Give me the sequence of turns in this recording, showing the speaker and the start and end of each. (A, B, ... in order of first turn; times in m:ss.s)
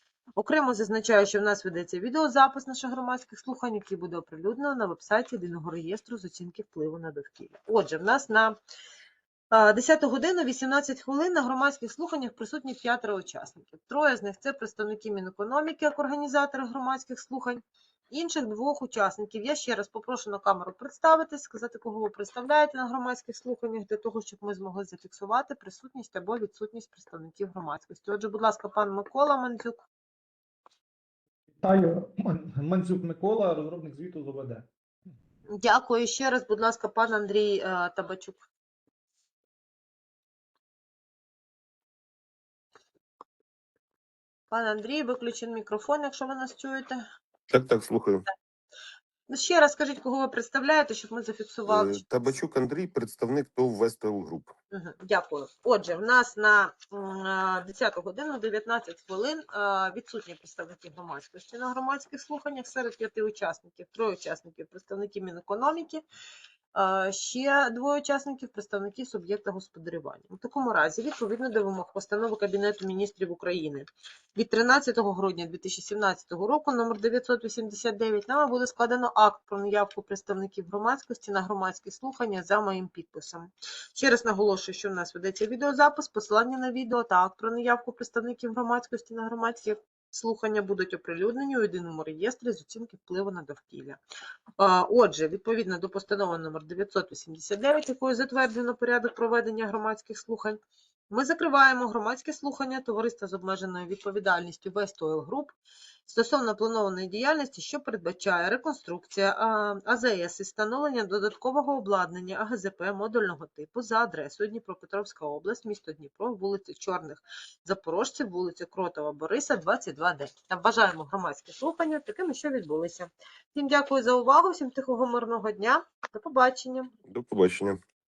0:00.4-0:08.6 A
0:09.5-0:29.8 A
0:31.6-0:35.1 B
0:35.5-0:38.4 A
0:44.5-0:47.0 A
0:47.5-0:48.2 C
0:49.3-0:52.0 A
0:51.7-0:54.5 C
0:54.7-1:06.0 A
1:06.7-1:34.0 A
1:34.6-1:40.6 A
1:41.1-1:45.5 A
1:46.0-2:06.9 A
2:07.0-2:07.8 C